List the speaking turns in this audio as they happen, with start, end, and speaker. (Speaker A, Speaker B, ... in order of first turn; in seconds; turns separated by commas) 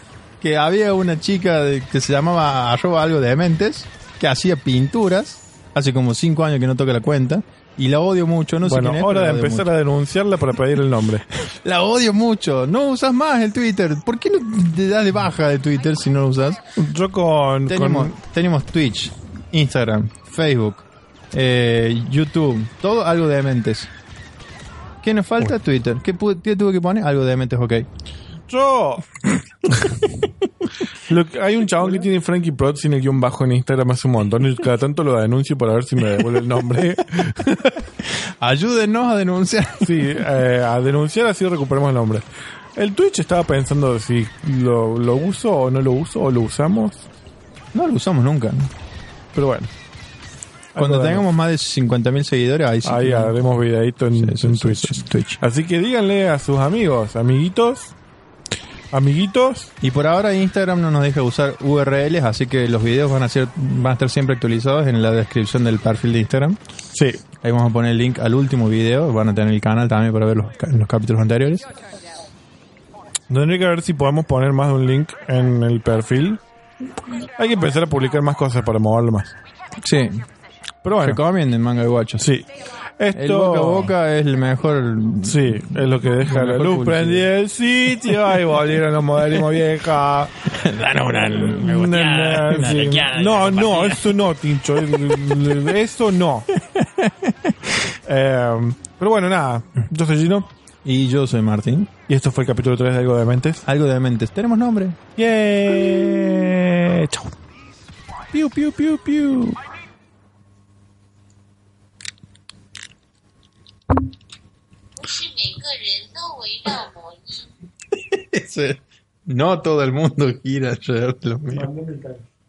Speaker A: 0.4-9.7, Speaker B: 8.6-11.2, Speaker A: 11.4-16.6, Speaker B: 16.8-18.1, Speaker A: 17.7-23.9, Speaker A: 25.0-27.9, Speaker B: 28.5-29.0, Speaker B: 29.7-30.0, Speaker B: 31.1-37.9, Speaker A: 38.0-40.2, Speaker B: 39.8-42.2, Speaker B: 42.8-47.1, Speaker A: 47.7-48.7, Speaker B: 49.3-49.7, Speaker B: 50.7-51.3, Speaker A: 50.8-53.3, Speaker B: 52.8-57.9, Speaker A: 54.1-55.4, Speaker B: 58.9-59.7, Speaker A: 59.8-66.6, Speaker B: 66.9-67.2, Speaker A: 67.4-71.7, Speaker B: 73.3-76.4, Speaker B: 77.4-79.3, Speaker A: 79.8-80.2, Speaker B: 80.8-81.2, Speaker A: 81.0-82.3, Speaker B: 82.2-83.9, Speaker A: 83.1-87.3, Speaker B: 85.2-90.4, Speaker A: 90.4-94.0, Speaker B: 91.2-96.5, Speaker A: 96.5-97.8, Speaker B: 98.0-100.5, Speaker A: 100.8-101.9, Speaker B: 102.1-103.6, Speaker A: 103.6-105.0, Speaker B: 105.2-107.3, Speaker B: 108.3-109.5, Speaker C: 115.0-117.5, Speaker A: 118.0-121.7, Speaker B: 121.5-122.2